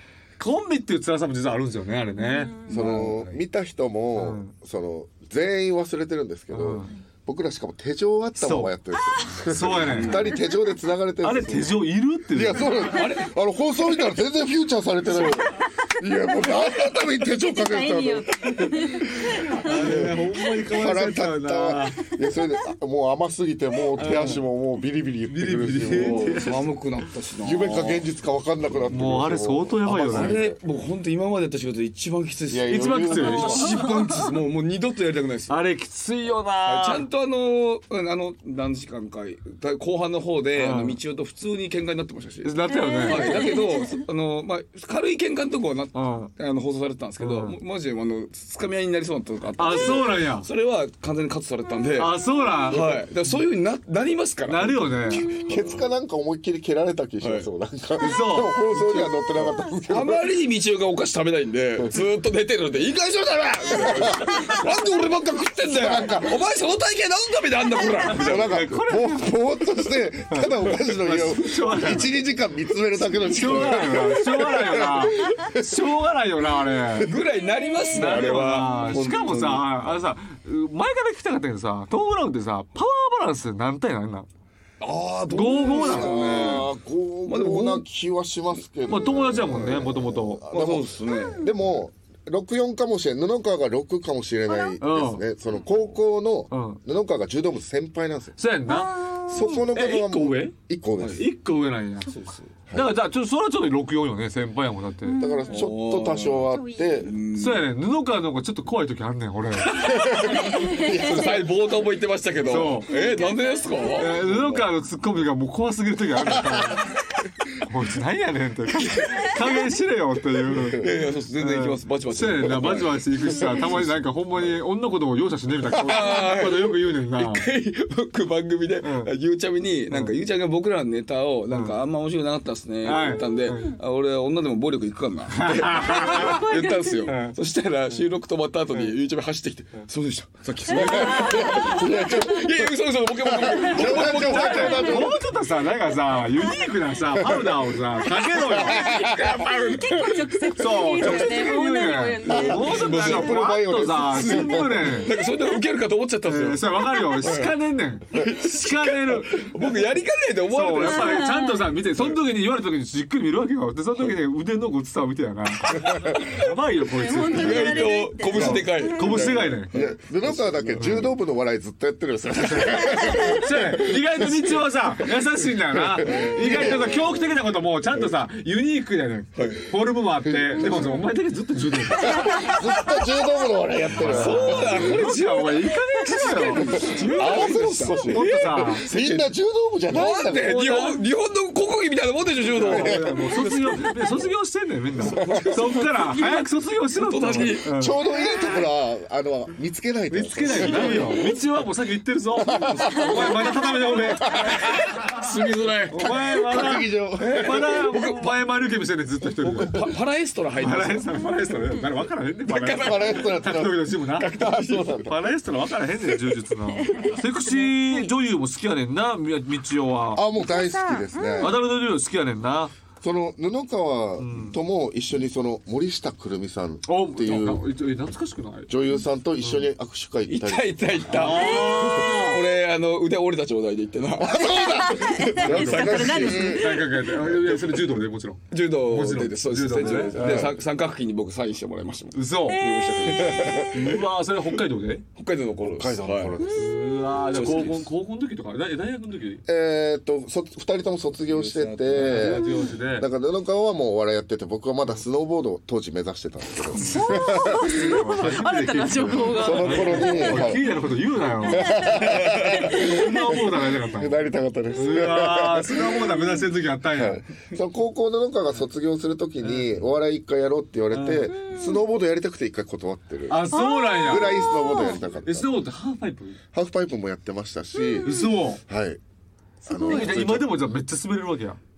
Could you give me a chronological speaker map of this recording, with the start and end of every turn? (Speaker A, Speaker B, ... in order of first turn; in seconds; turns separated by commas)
Speaker A: 0.4-3.0, Speaker B: 2.2-2.7, Speaker C: 2.7-3.4, Speaker D: 2.7-26.5, Speaker A: 4.2-4.5, Speaker A: 6.5-6.9, Speaker A: 8.4-8.7, Speaker A: 9.4-10.3, Speaker C: 9.6-10.4, Speaker A: 11.2-13.0, Speaker C: 12.8-13.3, Speaker B: 17.5-19.7, Speaker A: 19.3-22.1, Speaker A: 24.0-24.4, Speaker C: 24.0-24.4, Speaker A: 25.3-26.8, Speaker C: 25.9-28.0, Speaker D: 27.4-30.6, Speaker A: 28.9-30.4, Speaker C: 30.0-35.6, Speaker D: 32.5-33.8, Speaker A: 32.7-33.7, Speaker A: 35.5-37.1, Speaker C: 36.6-55.8, Speaker A: 40.5-41.0, Speaker A: 42.4-43.5, Speaker B: 42.7-44.0, Speaker A: 45.9-46.3, Speaker A: 47.2-47.6, Speaker A: 49.6-50.5, Speaker A: 52.0-53.1, Speaker A: 54.5-55.3, Speaker D: 55.2-60.2, Speaker C: 57.2-57.5, Speaker A: 58.0-58.6, Speaker C: 58.7-68.6, Speaker D: 63.7-64.8, Speaker D: 65.6-66.4, Speaker A: 68.1-69.5, Speaker D: 68.1-75.7, Speaker A: 70.3-72.1, Speaker A: 73.1-77.1, Speaker C: 77.0-79.6, Speaker B: 77.5-78.1, Speaker A: 77.9-84.3, Speaker D: 78.9-79.6, Speaker C: 84.8-86.7, Speaker A: 85.3-86.5, Speaker D: 85.8-98.4, Speaker C: 87.3-87.8, Speaker A: 88.9-90.5, Speaker C: 90.5-91.5, Speaker B: 91.1-91.5, Speaker B: 94.5-94.8, Speaker A: 94.8-95.2, Speaker A: 96.5-96.8, Speaker A: 98.4-102.2, Speaker B: 98.7-99.6, Speaker D: 99.3-101.2, Speaker C: 101.0-101.2, Speaker C: 102.0-102.5, Speaker D: 102.7-102.9, Speaker A: 102.7-105.2, Speaker B: 105.1-105.7, Speaker D: 105.2-107.2, Speaker C: 105.5-107.7, Speaker B: 106.5-107.0, Speaker A: 107.3-110.4, Speaker C: 109.8-114.7, Speaker D: 109.9-111.3, Speaker B: 110.4-111.4, Speaker A: 112.4-113.1, Speaker B: 112.9-114.1, Speaker A: 114.0-117.0, Speaker A: 117.5-127.5, Speaker D: 120.5-120.8, Speaker C: 120.8-124.5, Speaker C: 125.7-145.0, Speaker A: 128.8-129.1, Speaker A: 129.9-130.2, Speaker A: 131.5-131.8, Speaker A: 132.8-133.8, Speaker A: 135.3-136.5, Speaker B: 136.1-137.0, Speaker A: 137.0-137.4, Speaker A: 140.8-141.2, Speaker B: 140.8-141.6, Speaker D: 141.0-142.7, Speaker D: 143.2-145.2, Speaker A: 143.8-149.0, Speaker D: 147.2-147.4, Speaker D: 148.5-150.2, Speaker C: 148.8-150.1, Speaker B: 149.9-152.8, Speaker A: 150.6-155.1, Speaker C: 151.0-151.5, Speaker D: 152.3-154.8, Speaker C: 152.3-157.5, Speaker A: 156.2-159.6, Speaker C: 158.1-161.3, Speaker A: 160.5-169.7, Speaker B: 160.9-161.7, Speaker B: 166.9-169.2, Speaker C: 167.1-171.1, Speaker D: 169.7-174.5, Speaker A: 170.8-171.1, Speaker A: 172.4-182.2, Speaker D: 175.8-177.3, Speaker C: 176.0-177.0, Speaker C: 179.4-179.7, Speaker D: 180.3-180.9, Speaker D: 182.0-185.1, Speaker B: 182.0-182.6, Speaker A: 183.9-189.2, Speaker C: 183.9-189.2, Speaker D: 186.7-190.6, Speaker C: 189.9-193.9, Speaker A: 190.0-191.0, Speaker A: 192.4-198.0, Speaker D: 192.6-193.2, Speaker C: 195.0-197.7, Speaker D: 195.1-195.6, Speaker D: 197.7-201.3, Speaker A: 200.1-205.0, Speaker C: 200.5-201.2, Speaker D: 202.4-203.5, Speaker C: 202.7-203.4, Speaker D: 204.3-204.7, Speaker C: 204.3-206.2, Speaker A: 205.9-209.9, Speaker D: 206.1-207.8, Speaker C: 207.2-208.3, Speaker C: 209.4-211.2, Speaker A: 210.6-220.2, Speaker C: 212.5-213.3, Speaker D: 212.8-215.1, Speaker C: 214.2-214.9, Speaker B: 216.9-218.1, Speaker D: 220.1-221.6, Speaker B: 220.3-221.6, Speaker A: 221.4-222.8, Speaker D: 223.0-227.7, Speaker A: 224.2-224.6, Speaker A: 226.9-228.7, Speaker D: 228.7-231.2, Speaker A: 229.4-229.7, Speaker C: 230.3-234.4, Speaker A: 231.1-232.4, Speaker D: 234.2-236.8, Speaker B: 234.5-236.8, Speaker A: 235.4-240.5, Speaker C: 238.5-243.9, Speaker D: 240.1-240.6, Speaker A: 242.1-242.6, Speaker B: 242.5-243.2, Speaker D: 243.3-243.8, Speaker A: 243.6-245.1, Speaker C: 245.2-246.4, Speaker D: 245.6-246.7, Speaker A: 246.6-249.4, Speaker C: 247.3-247.9, Speaker D: 249.4-257.8, Speaker C: 251.3-252.4, Speaker A: 251.9-253.1, Speaker B: 256.9-260.4, Speaker A: 257.1-264.2, Speaker D: 259.3-260.6, Speaker D: 261.4-266.1, Speaker B: 261.6-261.9, Speaker B: 262.7-263.3, Speaker A: 264.7-267.2, Speaker D: 266.9-273.5, Speaker A: 269.4-269.8, Speaker A: 270.9-271.3, Speaker B: 271.4-271.8, Speaker A: 273.3-276.4, Speaker B: 273.5-275.0, Speaker D: 274.0-275.5, Speaker D: 276.5-279.0, Speaker B: 277.7-278.1, Speaker A: 278.0-278.6, Speaker B: 279.6-280.1, Speaker D: 279.6-280.6, Speaker A: 279.8-281.6